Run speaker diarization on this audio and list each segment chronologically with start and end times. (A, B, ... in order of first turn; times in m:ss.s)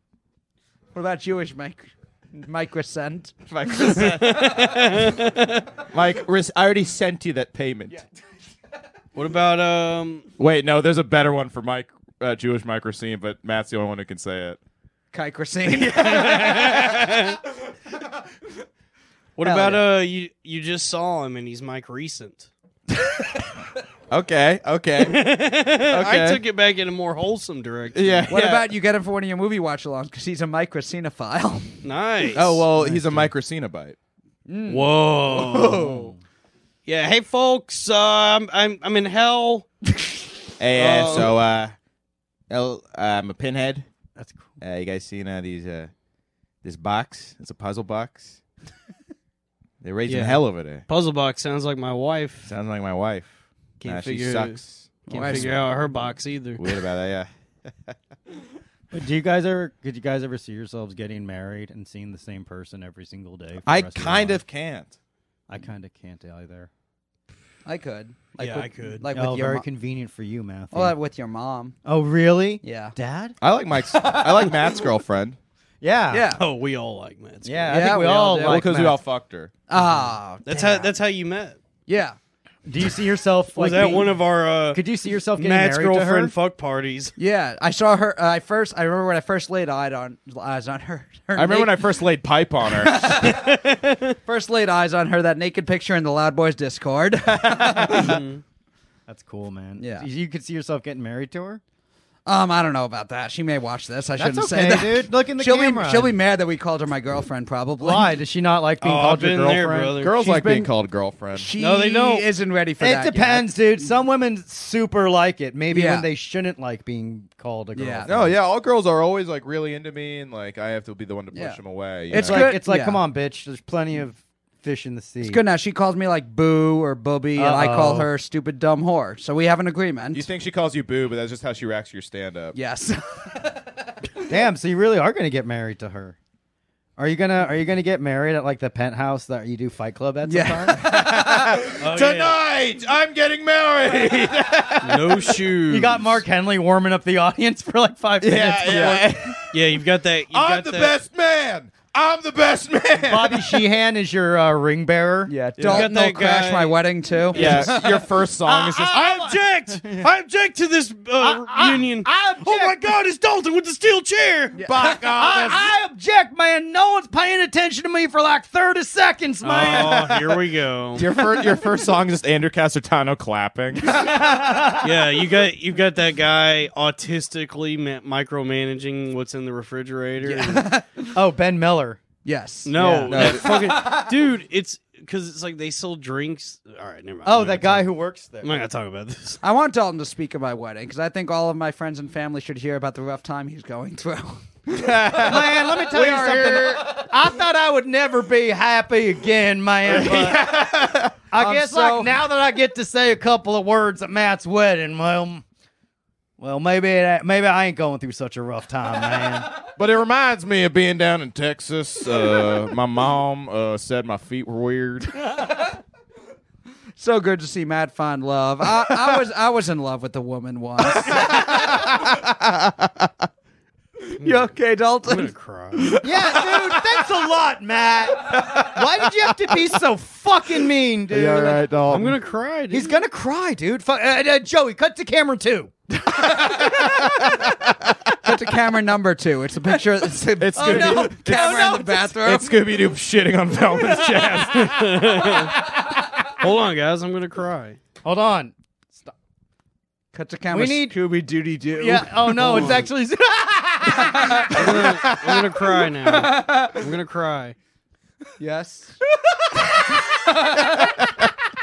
0:00.9-0:03.4 A
0:03.5-0:04.7 B
0:03.9-0:05.7 C
0:05.9-0:08.0 B
0:09.2-0:10.2 C
0:10.4-0:14.6 B
0:15.1-0:16.7 A
0:15.7-0:17.0 B
0:15.9-0:17.4 C
0:19.4-0:22.5 C
0:19.4-0:19.8 A
0:24.1-0:25.3 B
0:25.0-0:28.3 C
0:25.9-0:26.4 B
0:27.9-0:28.7 B
0:28.3-0:31.8 A
0:31.8-0:32.6 C
0:32.3-0:34.0 B
0:32.8-0:33.3 D
0:34.5-0:34.8 A
0:34.7-0:35.9 C
0:35.3-0:36.1 B
0:35.6-0:36.2 D
0:36.8-0:39.7 C
0:40.6-0:41.8 B
0:40.7-0:41.3 C
0:42.5-0:43.9 B
0:44.2-0:44.6 D
0:44.6-0:45.9 B
0:46.6-0:48.4 B
0:49.8-0:50.8 B
0:50.1-0:52.5 C
0:52.5-0:55.8 B
0:53.8-0:56.8 C
0:55.1-0:55.6 A
0:56.6-0:58.0 B
0:58.9-1:04.4 D
1:03.6-1:04.9 B
1:05.5-1:06.7 D
1:07.7-1:09.6 A
1:08.4-1:09.1 C
1:09.1-1:10.9 D
1:10.7-1:11.8 A
1:11.9-1:13.4 D
1:12.6-1:13.0 A
1:13.4-1:15.4 B
1:14.0-1:14.6 A
1:15.8-1:16.3 D
1:16.1-1:16.4 A
1:16.4-1:17.9 C
1:17.4-1:19.0 D
1:17.7-1:18.7 A
1:18.4-1:19.5 B
1:19.7-1:20.7 A
1:19.8-1:20.9 D
1:20.4-1:21.6 C
1:21.9-1:22.2 A
1:22.7-1:24.2 D
1:23.5-1:27.1 C
1:24.7-1:26.3 D
1:27.2-1:32.0 A
1:31.4-1:33.2 B
1:32.8-1:33.5 A
1:33.2-1:34.2 C
1:34.3-1:38.2 A
1:37.9-1:38.4 C
1:39.1-1:41.6 D
1:39.8-1:40.1 A
1:42.3-1:48.2 A
1:44.2-1:46.1 D
1:47.8-1:50.0 D
1:48.8-1:50.3 C
1:50.0-1:51.5 B
1:50.4-1:50.6 A
1:51.3-1:53.5 A
1:51.6-1:52.2 D
1:52.8-1:58.4 D
1:55.7-1:56.1 A
1:57.8-1:58.1 A
1:58.0-2:02.6 B
2:01.3-2:03.0 A
2:02.1-2:05.4 D
2:05.2-2:10.3 A
2:07.4-2:08.1 D
2:10.1-2:12.6 B
2:12.6-2:13.7 A
2:14.3-2:16.2 D
2:17.0-2:20.8 D
2:20.2-2:21.7 A
2:20.8-2:25.4 B
2:21.8-2:22.4 C
2:24.8-2:26.2 C
2:25.7-2:29.2 D
2:28.2-2:29.6 B
2:29.5-2:31.0 C
2:30.3-2:33.7 B
2:33.1-2:35.3 D
2:35.3-2:37.8 A
2:35.6-2:35.9 B
2:35.7-2:36.8 C
2:37.3-2:37.8 C
2:37.3-2:39.0 B
2:37.5-2:37.8 D
2:38.4-2:40.1 D
2:38.9-2:44.6 C
2:41.2-2:42.8 D
2:44.6-2:44.9 A
2:44.6-2:45.7 B
2:44.8-2:50.4 D
2:49.4-2:51.1 C
2:49.6-2:50.0 B
2:51.0-2:54.2 B
2:53.9-2:55.0 D
2:54.8-3:00.7 C
3:00.2-3:01.1 A
3:01.1-3:02.0 D
3:02.2-3:04.1 A
3:02.6-3:07.9 C
3:02.8-3:03.2 D
3:03.1-3:03.5 B
3:07.2-3:08.6 D
3:08.4-3:09.4 C
3:09.4-3:14.5 A
3:14.7-3:16.8 B
3:15.2-3:20.5 D
3:15.2-3:17.1 A
3:19.8-3:21.2 B
3:21.3-3:25.4 D
3:21.4-3:22.1 A
3:26.4-3:29.5 D
3:29.7-3:35.4 B
3:37.0-3:42.0 A
3:38.9-3:39.2 B
3:41.0-3:43.3 B
3:44.1-3:46.9 A
3:44.2-3:44.5 C
3:45.0-3:46.0 C
3:46.0-3:51.6 D
3:48.4-3:48.8 B
3:51.1-3:52.2 B
3:51.9-3:53.0 C
3:52.7-3:55.7 D
3:56.1-3:56.8 A
3:56.1-3:58.3 B
3:58.2-4:02.6 A
4:00.4-4:05.4 B
4:00.6-4:02.2 D
4:04.2-4:05.6 C
4:06.3-4:07.8 C
4:08.0-4:09.1 D
4:10.1-4:12.9 A
4:10.5-4:11.0 D
4:11.8-4:14.8 D
4:12.4-4:12.9 C
4:13.9-4:14.8 A
4:14.5-4:17.6 C
4:14.6-4:15.4 B
4:16.1-4:16.8 A
4:18.4-4:19.0 A
4:20.1-4:21.0 A
4:20.6-4:21.0 B